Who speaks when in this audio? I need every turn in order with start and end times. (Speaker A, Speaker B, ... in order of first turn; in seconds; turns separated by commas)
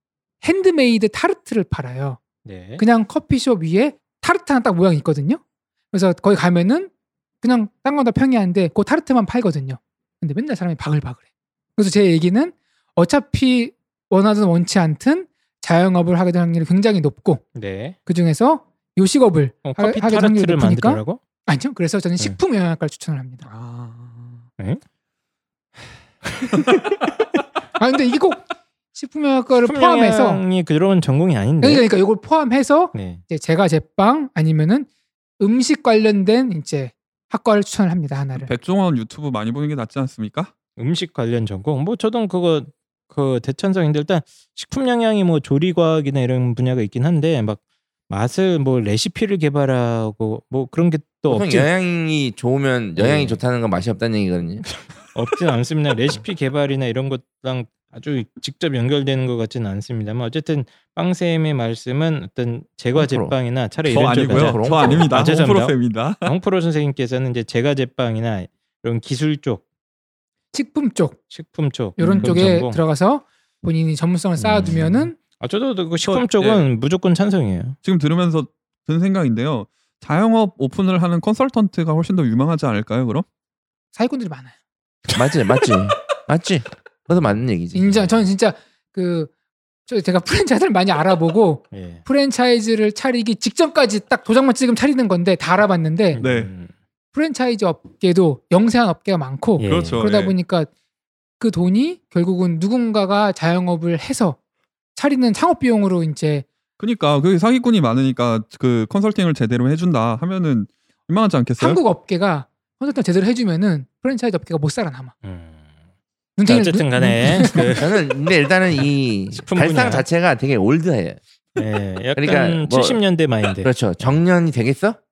Speaker A: 0.4-2.2, Speaker B: 2.4-2.8, Speaker A: 2.8-5.4, Speaker A: 5.9-11.2, Speaker A: 11.8-17.4, Speaker B: 17.5-18.0, Speaker A: 18.1-23.5, Speaker B: 19.6-21.2, Speaker C: 23.4-24.4, Speaker B: 26.4-26.6, Speaker A: 27.8-28.4, Speaker A: 28.9-30.4, Speaker B: 29.6-31.9, Speaker A: 31.6-34.9, Speaker B: 32.9-33.2, Speaker A: 35.4-38.5, Speaker C: 38.4-40.5, Speaker B: 40.8-51.7, Speaker D: 51.3-54.6, Speaker B: 53.0-53.4, Speaker B: 54.6-69.6, Speaker D: 63.0-63.3, Speaker C: 63.8-66.3, Speaker D: 64.2-65.1, Speaker A: 70.5-71.2, Speaker B: 71.3-72.8, Speaker A: 72.0-75.2, Speaker C: 72.0-72.5, Speaker B: 74.4-77.8, Speaker C: 76.0-76.6, Speaker C: 77.8-83.2, Speaker A: 83.9-84.5, Speaker D: 85.1-88.1, Speaker A: 87.7-89.3, Speaker A: 89.9-96.2, Speaker B: 91.7-92.0, Speaker B: 96.1-96.7, Speaker C: 96.2-96.5, Speaker A: 97.1-100.7, Speaker B: 99.6-100.0, Speaker C: 99.6-100.3, Speaker A: 101.4-104.4, Speaker A: 104.9-106.5, Speaker C: 106.8-111.8, Speaker A: 111.6-115.1, Speaker B: 115.2-115.6, Speaker A: 116.4-117.7, Speaker B: 116.5-118.0, Speaker D: 117.7-121.2, Speaker B: 119.3-120.1, Speaker B: 121.5-123.7, Speaker D: 122.2-123.0, Speaker D: 123.6-125.0